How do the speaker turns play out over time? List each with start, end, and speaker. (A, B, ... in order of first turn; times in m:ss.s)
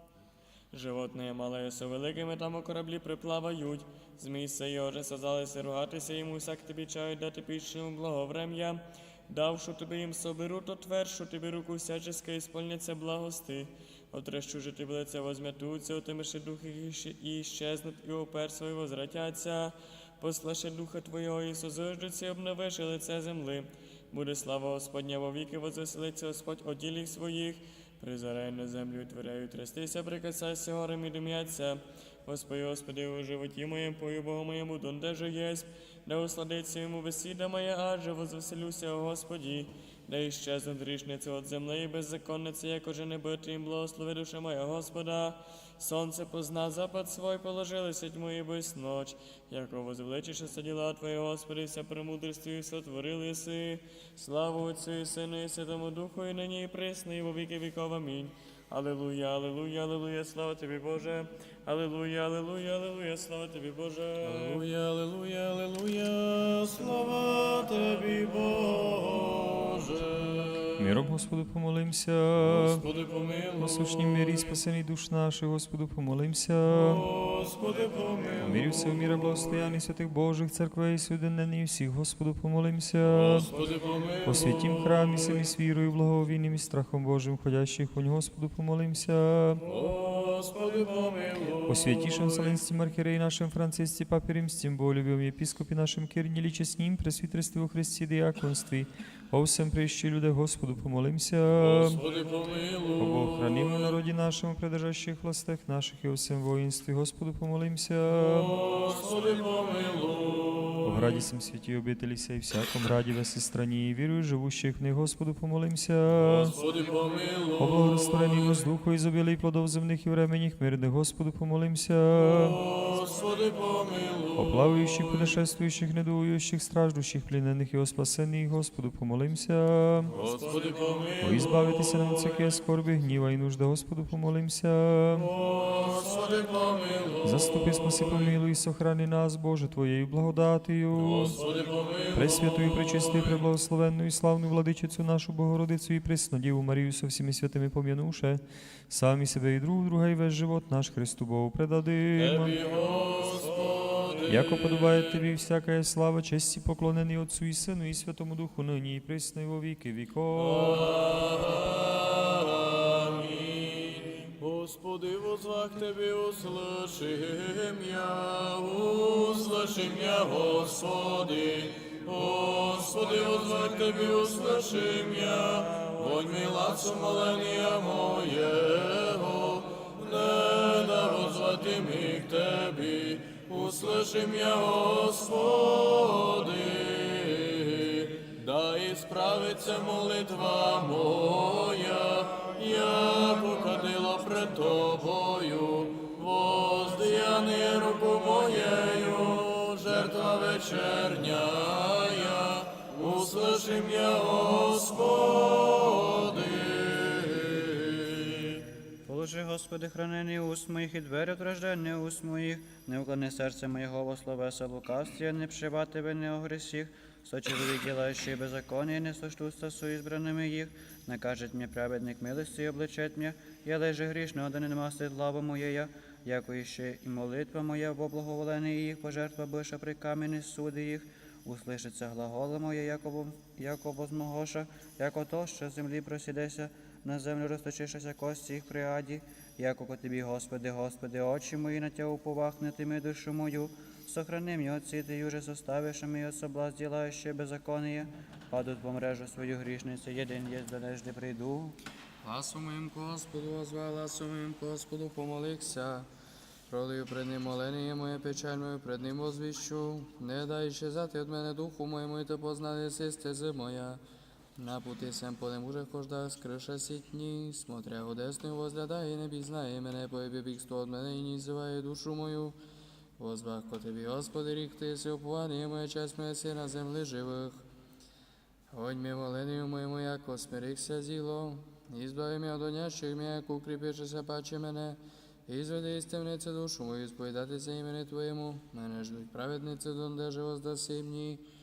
0:00.7-1:04.6 A
1:04.2-1:10.8 B
1:10.8-1:12.8 C
1:12.4-1:14.5 B
1:13.6-1:17.0 C
1:16.7-1:19.7 B
1:18.4-1:23.5 C
1:23.0-1:25.5 B
1:24.2-1:29.7 C
1:29.6-1:32.6 B
1:31.7-1:42.0 C
1:41.6-1:44.0 B
1:43.0-1:48.5 C
1:48.1-1:51.2 B
1:50.8-1:56.6 C
1:56.1-1:58.6 B
1:57.6-2:02.6 C
2:02.1-2:05.3 B
2:04.4-2:10.1 C
2:10.1-2:12.5 B
2:11.2-2:15.3 C
2:15.1-2:18.3 B
2:17.2-2:21.4 C
2:21.0-2:23.4 B
2:22.1-2:32.6 C
2:32.2-2:34.9 B
2:34.3-2:40.9 C
2:40.4-3:28.6 B
3:29.1-4:11.8 D
4:12.2-4:16.1 E
4:16.7-4:24.0 E
4:24.6-4:32.6 E
4:33.2-4:37.7 E
4:38.7-4:51.4 E